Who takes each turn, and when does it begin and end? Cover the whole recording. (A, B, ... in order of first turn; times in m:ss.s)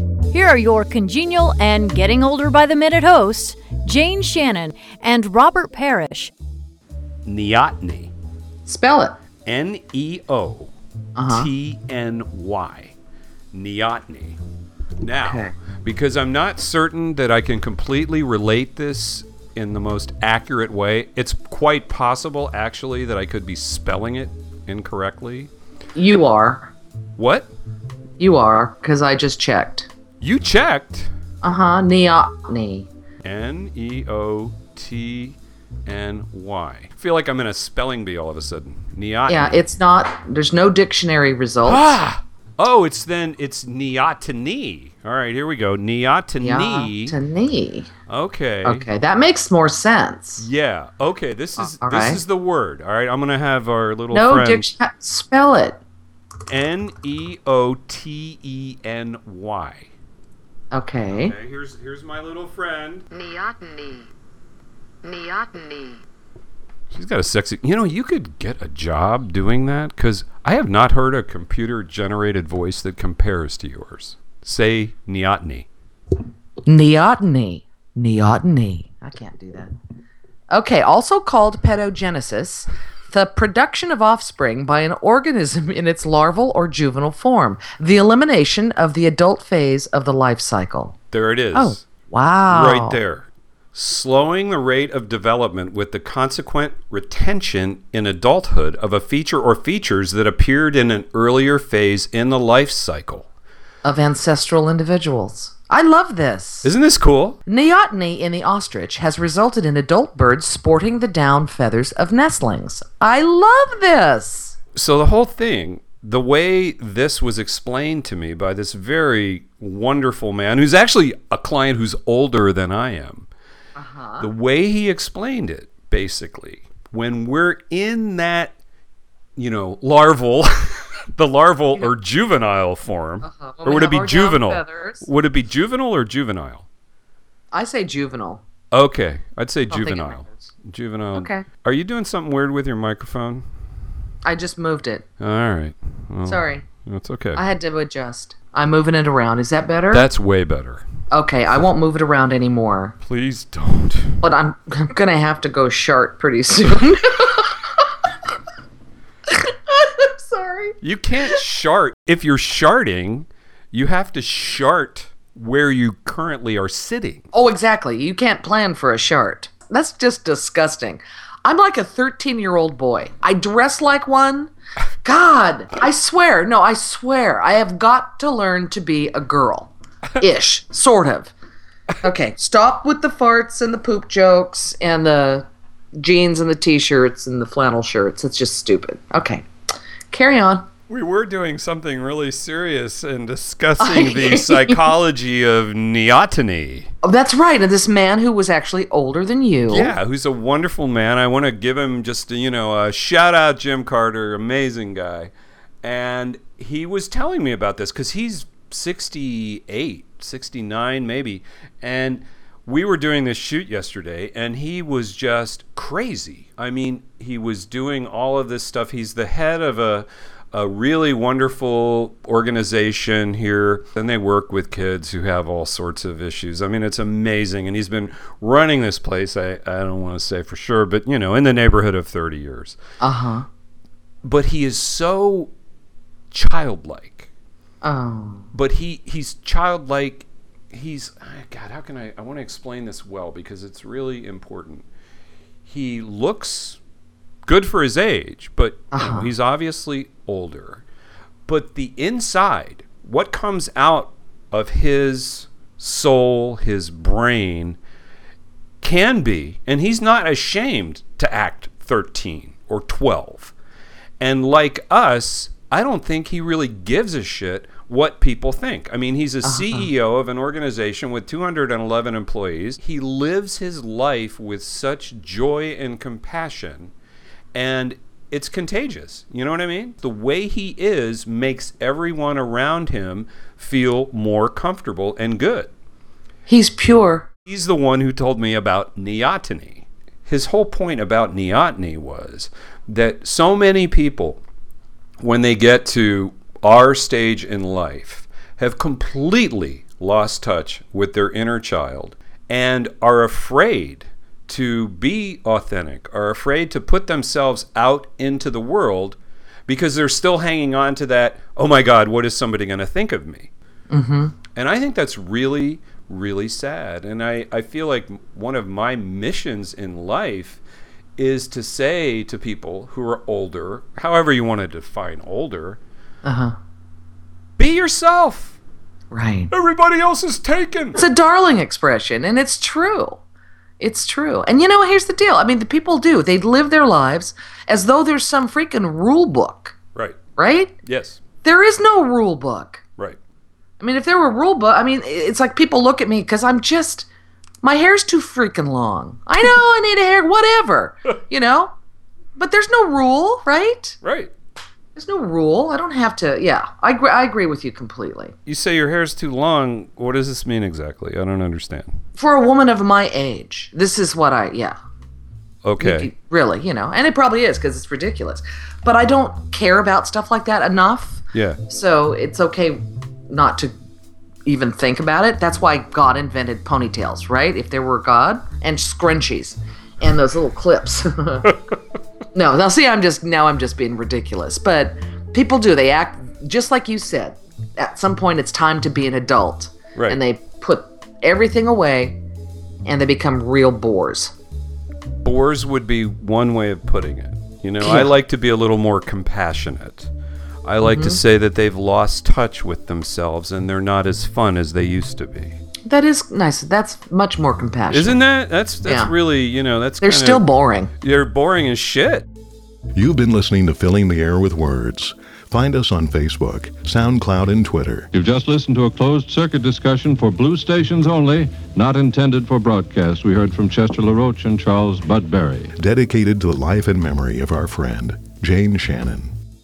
0:00.3-0:06.3 A
0:07.2-0:08.1 B
0:08.6-0:09.2 C
0:09.4-0:10.7 B
0:11.2-0:11.5 C
0:11.3-0:12.9 B
0:13.5-0:14.4 B
0:15.0-0:25.5 B
0:15.2-0:15.5 C
0:25.9-0:26.7 C
0:27.2-0:27.5 B
0:28.2-0:29.9 C
0:30.2-0:31.1 B
0:31.4-0:32.9 C
0:33.2-0:39.7 B
0:39.3-0:42.0 C
0:41.6-0:47.1 B
0:46.4-0:47.9 C
0:48.1-0:48.8 B
0:48.6-0:50.5 C
0:50.4-0:54.6 B
0:51.6-0:52.2 C
0:54.1-0:55.8 C
0:56.5-0:59.9 B
1:00.7-1:01.3 C
1:01.2-1:03.1 B
1:03.1-1:04.1 D
1:05.0-1:06.0 D
1:06.9-1:15.7 B
1:16.6-1:19.7 C
1:20.5-1:30.9 C
1:31.1-1:31.8 B
1:31.5-1:33.0 C
1:32.5-1:43.3 B
1:43.8-1:46.7 C
1:46.6-1:47.4 B
1:47.4-1:54.6 C
1:54.7-2:03.3 B
2:03.8-2:04.3 C
2:04.2-2:08.5 B
2:09.4-2:16.6 B
2:13.2-2:15.0 C
2:17.5-2:18.4 C
2:18.7-2:23.4 B
2:19.7-2:20.4 C
2:21.1-2:21.5 C
2:24.2-2:25.0 C
2:25.2-2:27.4 B
2:26.2-2:26.6 C
2:27.4-2:30.1 C
2:29.9-2:30.8 B
2:31.1-2:32.9 C
2:33.0-2:34.2 B
2:34.2-2:37.7 C
2:39.4-2:40.8 C
2:40.8-2:47.3 B
2:47.3-2:54.5 C
2:55.0-3:01.3 C
3:02.0-3:05.4 C
3:06.0-3:09.4 C
3:10.1-3:10.6 C
3:10.9-3:16.9 B
3:13.8-3:14.8 C
3:17.0-3:19.9 C
3:19.7-3:25.3 B
3:25.8-3:52.8 B
3:53.0-3:53.5 C
3:54.2-3:55.5 B
3:56.3-3:57.3 B
3:57.8-3:58.5 C
3:58.5-4:04.8 B
4:05.6-4:06.8 B
4:07.4-4:10.8 B
4:08.9-4:09.3 C
4:11.5-4:17.8 B
4:18.8-4:23.5 B
4:24.2-4:36.9 B
4:29.4-4:29.9 C
4:37.5-4:45.7 B
4:46.5-4:47.3 C
4:47.4-4:54.4 B
4:55.2-5:13.5 B
5:13.9-5:14.3 C
5:14.5-5:20.6 B
5:21.2-5:25.8 B
5:26.2-5:26.5 C
5:27.6-5:28.6 B
5:29.1-5:29.5 C
5:29.5-5:31.0 B
5:31.0-5:33.2 C
5:33.8-5:39.8 C
5:40.4-5:40.7 C
5:40.8-5:41.2 B
5:41.4-5:42.8 C
5:43.8-5:47.1 C
5:47.6-5:51.7 C
5:52.4-5:54.0 C
5:54.0-5:54.3 B
5:54.9-5:58.3 C
5:58.4-6:01.9 B
6:02.2-6:04.7 C
6:05.6-6:06.1 B
6:05.8-6:13.7 C
6:11.3-6:11.6 B
6:14.4-6:21.6 C
6:22.3-6:32.2 C
6:32.8-6:34.3 C
6:35.2-6:40.1 B
6:37.8-6:38.1 C
6:40.6-6:45.6 B
6:40.8-6:41.2 C
6:45.9-6:48.2 C
6:47.9-6:50.4 B
6:48.8-6:49.1 C
6:50.0-6:50.9 C
6:51.0-6:52.2 B
6:52.9-6:58.1 E
6:58.1-7:05.7 F
7:05.8-7:09.3 E